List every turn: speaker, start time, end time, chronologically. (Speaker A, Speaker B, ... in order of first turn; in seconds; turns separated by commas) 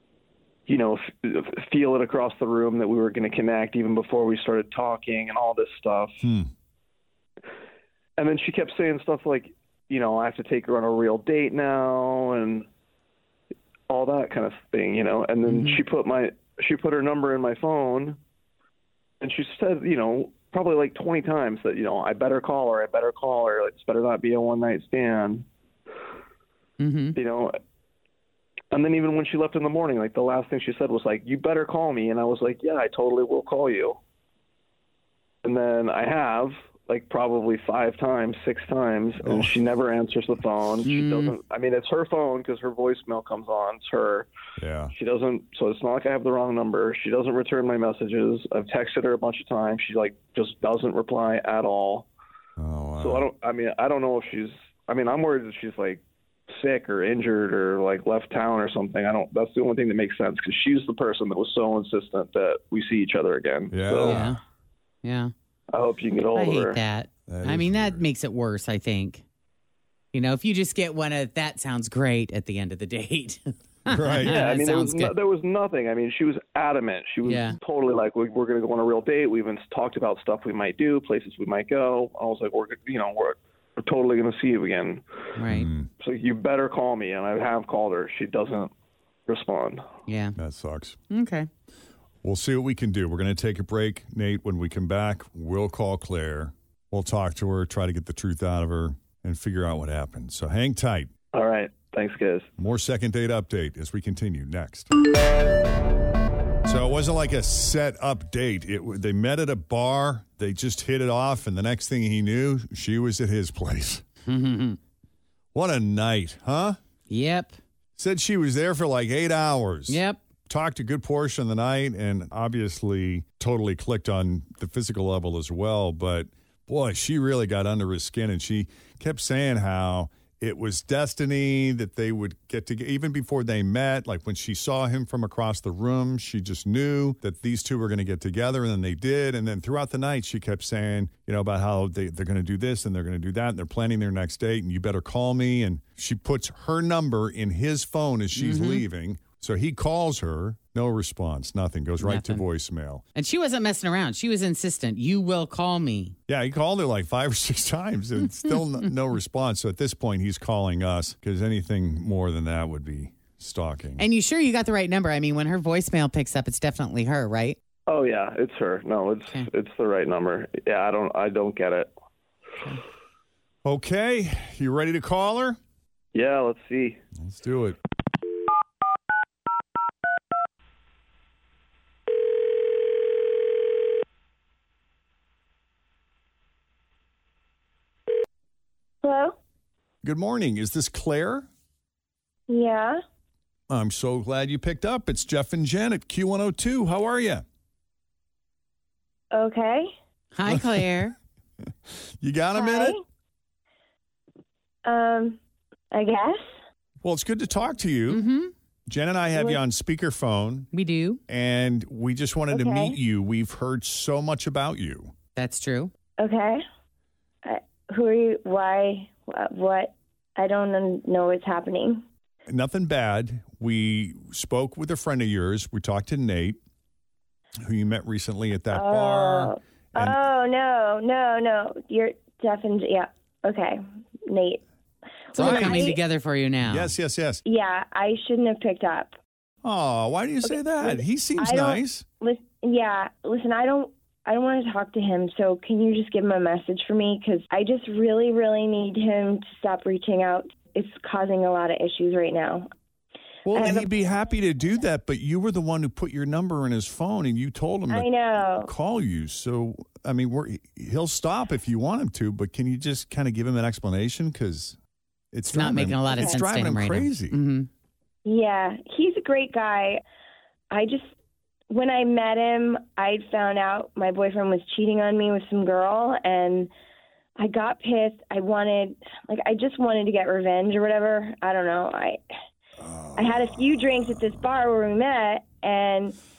Speaker A: 0.7-6.2, Speaker B: 6.2-6.5, Speaker A: 8.2-12.7, Speaker A: 13.9-18.2, Speaker C: 15.5-15.8, Speaker A: 19.2-25.4, Speaker C: 26.8-27.2, Speaker A: 27.1-27.6, Speaker A: 28.7-34.0, Speaker A: 35.4-44.3, Speaker B: 39.2-39.5, Speaker C: 40.8-41.4, Speaker B: 44.6-44.9, Speaker A: 44.9-52.1, Speaker B: 52.6-53.3, Speaker A: 53.0-64.2, Speaker B: 63.7-64.4, Speaker C: 64.0-64.4, Speaker C: 65.0-65.3, Speaker A: 65.7-66.8, Speaker C: 66.3-69.2, Speaker B: 67.3-68.1, Speaker C: 70.1-75.1, Speaker B: 73.9-74.5, Speaker A: 74.2-85.0, Speaker C: 77.2-77.6, Speaker C: 85.4-85.7, Speaker B: 85.5-85.9, Speaker A: 86.0-88.7, Speaker A: 89.3-89.8, Speaker C: 90.1-90.4, Speaker B: 90.4-91.0, Speaker C: 91.1-91.5, Speaker B: 92.2-101.1, Speaker A: 101.3-102.5, Speaker B: 102.6-104.9, Speaker B: 106.6-114.0, Speaker C: 114.3-114.8, Speaker B: 115.5-116.8, Speaker C: 117.1-117.6, Speaker B: 118.0-153.0, Speaker C: 119.9-120.2, Speaker C: 148.4-148.8, Speaker C: 152.0-152.4, Speaker C: 153.2-156.2, Speaker B: 156.3-164.1, Speaker C: 164.0-167.6, Speaker A: 167.9-171.9, Speaker B: 173.6-175.6, Speaker A: 176.1-177.0, Speaker B: 177.2-177.8, Speaker D: 189.0-189.4, Speaker B: 190.0-191.5, Speaker D: 192.5-193.0, Speaker B: 193.7-197.4, Speaker D: 199.3-199.9, Speaker C: 200.3-201.2, Speaker B: 200.5-200.9, Speaker B: 202.2-202.9, Speaker D: 202.5-203.0, Speaker D: 204.8-205.4, Speaker D: 205.9-206.4, Speaker B: 207.0-208.2, Speaker C: 208.1-208.5, Speaker B: 208.9-210.7, Speaker D: 209.3-209.6, Speaker C: 210.7-211.2, Speaker B: 211.3-215.1, Speaker D: 212.5-213.0, Speaker C: 215.3-215.9, Speaker D: 216.2-216.6, Speaker D: 217.4-222.0, Speaker B: 222.5-226.6, Speaker B: 227.6-230.2, Speaker D: 228.7-234.6, Speaker D: 235.3-236.0, Speaker C: 235.3-236.9, Speaker B: 235.4-236.0, Speaker B: 236.7-237.4, Speaker D: 237.4-239.2, Speaker B: 239.6-242.1, Speaker D: 240.4-252.7, Speaker B: 253.5-264.8, Speaker D: 253.5-253.9, Speaker D: 257.9-258.7, Speaker B: 265.3-267.4, Speaker C: 265.5-267.7, Speaker D: 268.3-270.0, Speaker D: 270.7-271.1, Speaker D: 271.7-276.7, Speaker D: 277.4-282.2, Speaker B: 282.8-284.1, Speaker D: 283.2-286.2